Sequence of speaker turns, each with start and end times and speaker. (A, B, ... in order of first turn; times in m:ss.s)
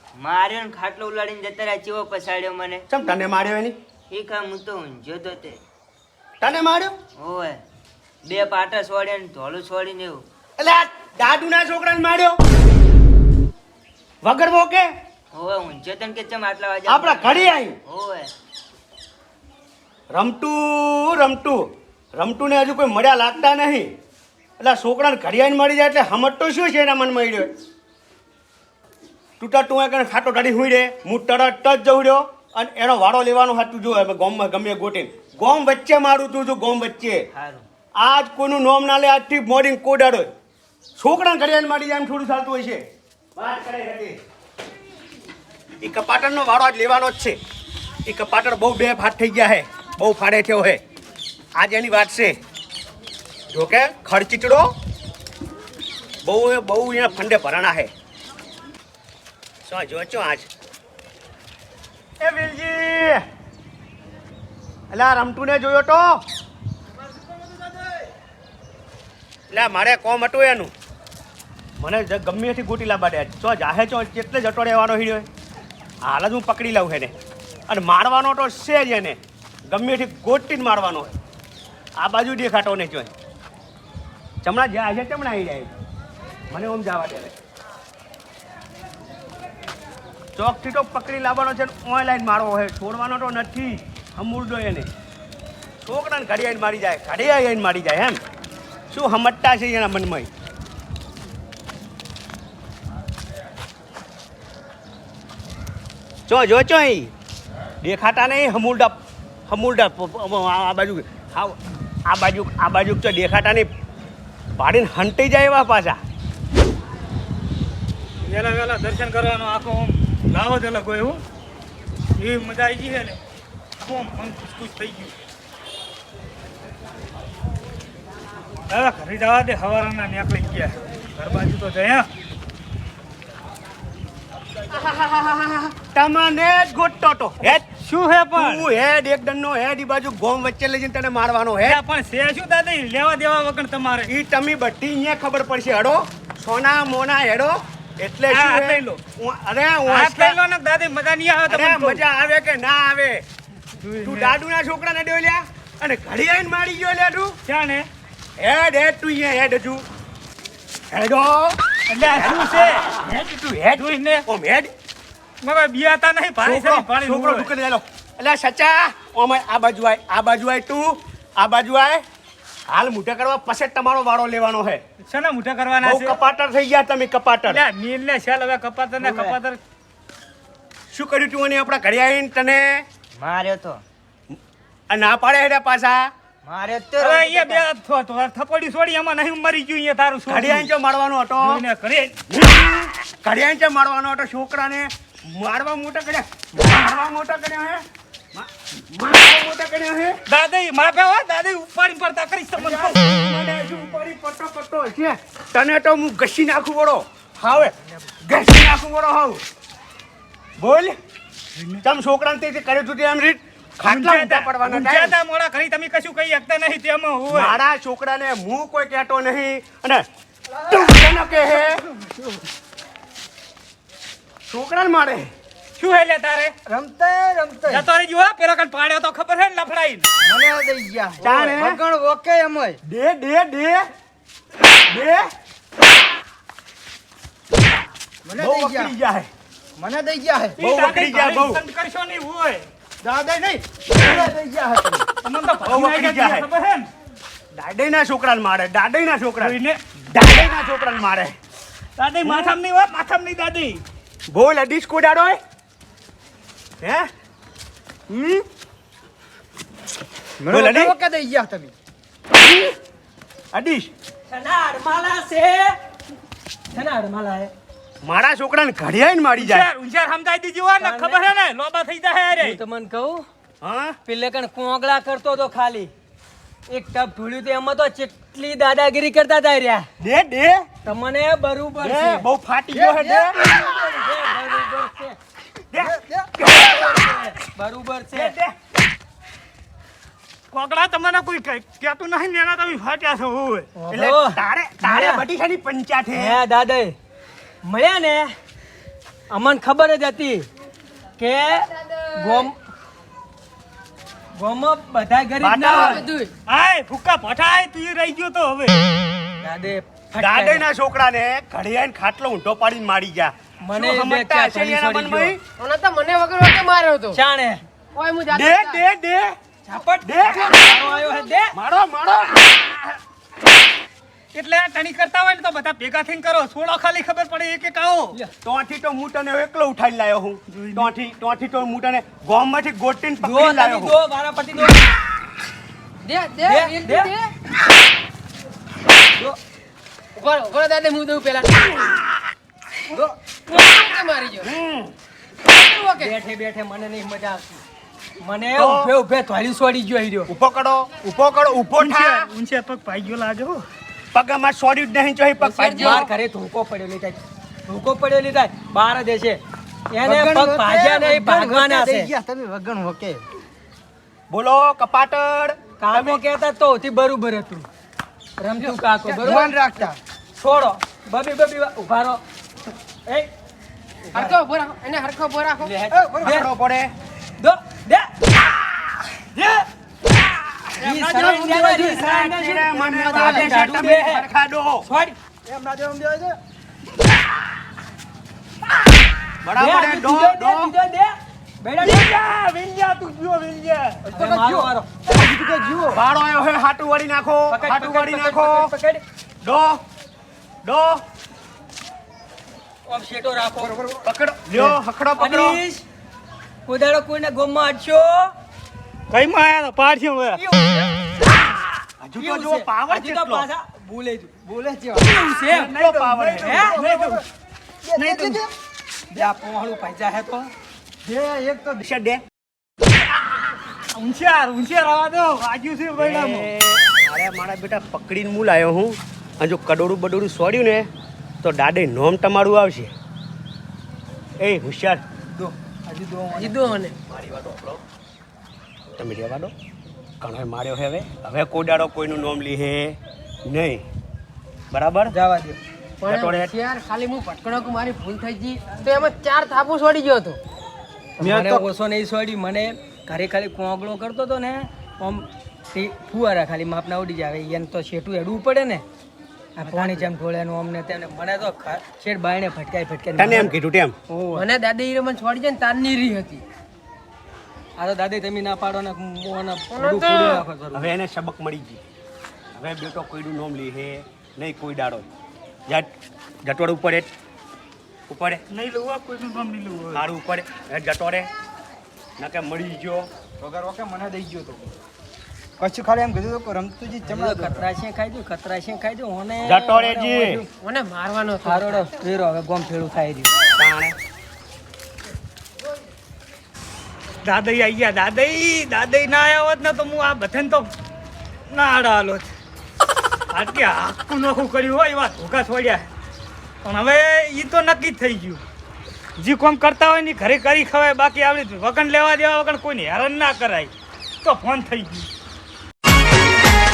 0:00.2-0:02.8 A
0:02.9-0:03.8 B
0:04.1-0:05.6 A
0:06.4-0:07.0 B
0:07.2-0:07.6 A
0:08.2-0:10.2 A
0:10.6-0:12.4 B
0:14.2-0:14.9 B
0:15.3-0:18.3 A
0:16.9-0:17.8 B
0:20.1-0:21.6 B
0:22.2-0:23.9 B
0:24.6-0:27.5 B
0:29.4-0:37.2 B
0:37.4-0:37.6 A
0:38.0-0:40.3 B
0:41.0-0:42.8 B
0:43.4-0:44.2 B
0:45.8-0:47.4 B
0:48.1-0:50.8 B
0:51.6-0:52.4 B
0:53.5-0:54.7 B
0:56.2-0:57.9 B
0:59.6-1:00.5 B
1:02.2-1:03.2 B
1:04.9-1:06.1 B
1:09.5-1:10.7 B
1:11.8-1:15.3 B
1:16.0-1:17.1 B
1:17.7-1:19.2 B
1:19.7-1:21.2 B
1:22.0-1:23.1 B
1:24.4-1:25.7 B
1:26.5-1:27.3 B
1:30.4-1:34.9 B
1:35.8-1:38.2 B
1:38.9-1:40.3 B
1:46.3-1:47.1 B
1:47.8-1:49.0 B
1:49.5-1:53.7 B
1:54.6-1:56.0 B
1:58.3-2:01.2 C
2:02.2-2:03.2 C
2:03.8-2:05.2 C
2:08.7-2:12.1 C
2:14.7-2:17.6 B
2:17.4-2:18.7 C
2:18.4-2:21.8 B
2:21.6-2:24.1 C
2:24.1-2:30.4 B
2:28.3-2:29.0 C
2:29.9-2:32.0 C
2:31.5-2:33.2 B
2:33.8-2:34.4 C
2:34.0-2:37.4 B
2:37.4-2:37.9 C
2:38.4-2:39.8 B
2:40.9-2:41.6 B
2:41.9-2:42.9 C
2:42.1-2:44.7 B
2:43.7-2:44.2 C
2:45.4-2:47.5 C
2:46.4-2:52.0 B
2:52.7-2:54.8 B
2:55.0-2:56.2 C
2:55.8-2:57.6 B
2:57.5-2:59.6 C
2:59.0-2:59.4 A
3:00.9-3:02.8 B
3:03.2-3:03.8 A
3:04.9-3:06.1 B
3:06.4-3:07.6 A
3:07.0-3:10.7 C
3:10.3-3:11.6 B
3:11.4-3:12.2 C
3:12.3-3:20.2 B
3:20.3-3:23.0 C
3:22.6-3:29.4 B
3:30.6-3:31.0 B
3:31.6-3:31.8 C
3:31.8-3:35.2 B
3:33.8-3:37.6 C
3:37.3-3:40.1 B
3:40.6-3:42.3 D
3:40.7-3:41.8 B
3:44.5-3:45.3 B
3:45.8-3:46.5 C
3:46.7-3:47.9 D
3:47.7-3:50.1 C
3:50.2-3:52.8 D
3:51.2-3:51.8 B
3:52.9-3:53.9 B
3:54.8-3:55.3 B
3:58.3-3:58.9 D
3:58.4-3:59.3 B
3:59.8-4:00.6 D
4:00.6-4:02.7 C
4:00.6-4:01.6 B
4:03.0-4:05.0 D
4:04.0-4:04.2 B
4:05.2-4:06.9 C
4:05.6-4:06.5 B
4:07.6-4:11.4 B
4:09.4-4:09.8 C
4:12.0-4:13.8 C
4:12.2-4:12.6 B
4:14.3-4:15.4 B
4:16.8-4:17.1 B
4:18.1-4:18.4 D
4:20.4-4:21.7 D
4:20.5-4:21.0 B
4:22.4-4:22.8 B
4:23.5-4:23.9 B
4:24.3-4:25.8 E
4:26.7-4:27.5 E
4:28.0-4:29.7 B
4:29.4-4:32.6 C
4:30.8-4:31.3 E
4:32.4-4:33.2 E
4:33.6-4:34.0 B
4:34.1-4:35.9 E
4:36.7-4:39.9 E
4:40.0-4:40.7 B
4:40.8-4:42.3 E
4:41.8-4:43.5 B
4:42.7-4:44.1 D
4:43.5-4:45.2 E
4:45.7-4:47.3 B
4:45.8-4:46.4 D
4:46.5-4:48.4 E
4:48.1-4:48.6 B
4:50.5-4:53.7 C
4:53.8-4:55.2 E
4:53.9-4:56.4 B
4:56.1-4:57.0 E
4:57.6-4:58.3 E
4:59.3-5:00.5 E
5:01.2-5:02.5 E
5:04.4-5:06.0 E
5:05.4-5:06.1 B
5:05.6-5:06.3 F
5:06.5-5:08.8 C
5:09.4-5:10.6 E
5:10.2-5:15.4 B
5:13.6-5:15.4 E
5:15.6-5:17.2 F
5:17.1-5:17.6 E
5:18.0-5:18.9 F
5:18.3-5:19.4 B
5:19.6-5:21.5 E
5:20.0-5:23.0 B
5:24.3-5:28.2 C
5:28.4-5:34.0 B
5:30.5-5:30.9 C
5:33.2-5:35.0 E
5:36.0-5:37.3 F
5:36.5-5:37.1 E
5:40.2-5:42.0 F
5:43.5-5:44.5 F
5:44.4-5:44.9 B
5:45.4-5:46.2 F
5:46.0-5:47.6 E
5:48.2-5:50.3 E
5:48.6-5:48.9 B
5:50.3-5:52.3 B
5:51.8-5:53.6 C
5:54.1-5:56.1 B
5:55.4-6:02.1 E
5:55.4-5:56.1 F
6:00.0-6:03.2 D
6:04.3-6:06.2 B
6:05.8-6:07.7 E
6:08.4-6:09.6 E
6:08.6-6:10.0 D
6:10.4-6:12.2 E
6:13.1-6:13.3 E
6:14.1-6:14.4 E
6:14.1-6:15.7 F
6:15.6-6:16.5 E
6:15.9-6:16.5 D
6:16.2-6:16.9 B
6:17.4-6:18.1 E
6:20.8-6:21.9 D
6:20.8-6:24.3 E
6:21.8-6:24.9 B
6:22.7-6:23.6 D
6:24.8-6:25.2 E
6:25.5-6:26.4 D
6:29.4-6:30.7 B
6:29.6-6:32.1 E
6:31.8-6:34.0 C
6:34.0-6:36.0 D
6:34.1-6:34.9 E
6:35.9-6:38.7 B
6:37.5-6:39.0 E
6:39.4-6:39.8 B
6:40.6-6:41.0 B
6:42.9-6:43.8 E
6:43.6-6:44.8 D
6:44.1-6:45.6 B
6:45.2-6:45.8 E
6:46.7-6:48.3 E
6:49.1-6:50.4 C
6:50.4-6:51.3 E
6:52.0-6:53.5 B
6:52.2-6:54.4 E
6:54.4-6:55.4 D
6:55.0-6:55.8 E
6:55.5-6:56.6 B
6:55.5-6:57.2 C
6:56.4-6:56.8 E
6:56.6-6:57.2 D
6:57.8-6:58.5 D
6:58.0-6:58.4 C
6:59.1-7:00.5 E
7:01.0-7:01.8 D
7:01.8-7:02.2 B
7:04.0-7:06.5 C
7:06.0-7:10.9 B
7:11.4-7:12.9 B
7:14.4-7:15.0 B
7:15.4-7:16.8 E
7:16.3-7:17.0 F
7:17.1-7:17.8 B
7:19.0-7:19.5 B
7:20.2-7:23.8 B
7:24.7-7:25.1 B
7:25.1-7:25.6 E
7:26.0-7:30.4 F
7:26.1-7:26.5 B
7:31.2-7:38.8 E
7:31.2-7:31.7 B
7:39.6-7:43.6 E
7:39.6-7:40.1 D
7:43.2-7:44.0 B
7:44.1-7:44.5 E
7:44.4-7:46.4 F
7:47.8-7:50.9 E
7:49.7-7:50.4 F
7:50.7-7:51.8 B
7:52.6-7:55.1 B
7:56.4-7:57.1 B
7:58.1-7:58.4 B
7:58.5-8:00.1 C
7:59.9-8:01.3 B
8:02.2-8:03.1 B
8:03.4-8:04.7 D
8:05.6-8:07.7 D
8:07.0-8:10.5 E
8:09.4-8:10.4 B
8:10.6-8:11.9 F
8:11.4-8:13.3 E
8:13.6-8:14.0 B
8:17.2-8:20.7 C
8:21.5-8:22.3 C
8:23.3-8:25.9 C
8:26.6-8:28.4 C
8:29.2-8:33.7 C
8:34.2-8:35.1 C